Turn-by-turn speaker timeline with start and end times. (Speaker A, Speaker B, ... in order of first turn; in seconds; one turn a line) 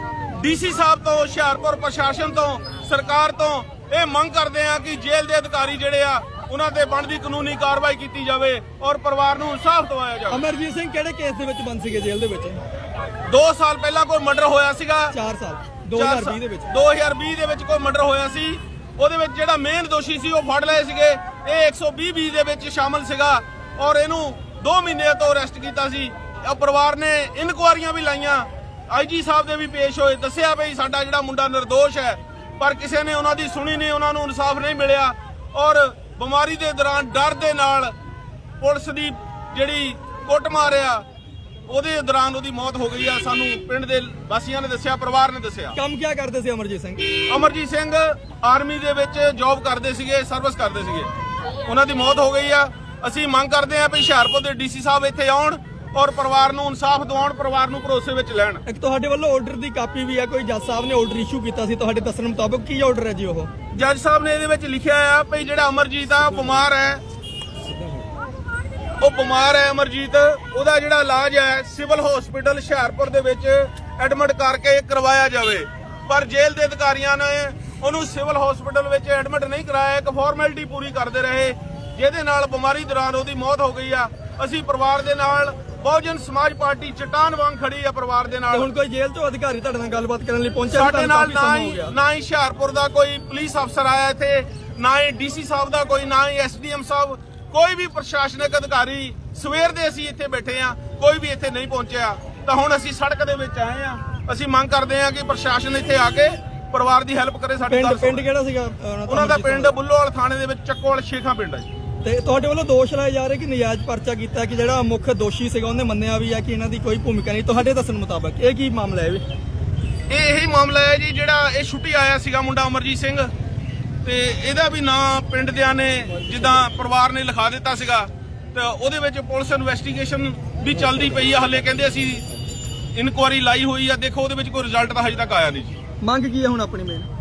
Speaker A: 0.3-10.4
Speaker B: 10.3-12.6
Speaker A: 13.3-15.1
Speaker B: 15.1-16.7
Speaker A: 15.9-37.9
Speaker A: 38.6-41.0
Speaker A: 41.7-45.8
Speaker B: 45.7-47.0
Speaker A: 47.3-51.1
Speaker A: 51.6-58.6
Speaker B: 58.6-63.5
Speaker A: 63.7-67.0
Speaker A: 69.0-88.7
Speaker B: 88.5-91.9
Speaker A: 90.7-108.3
Speaker B: 107.7-109.8
Speaker A: 109.1-111.7
Speaker B: 112.0-119.2
Speaker A: 120.1-123.3
Speaker A: 124.0-132.2
Speaker A: 132.9-135.8
Speaker B: 136.0-137.1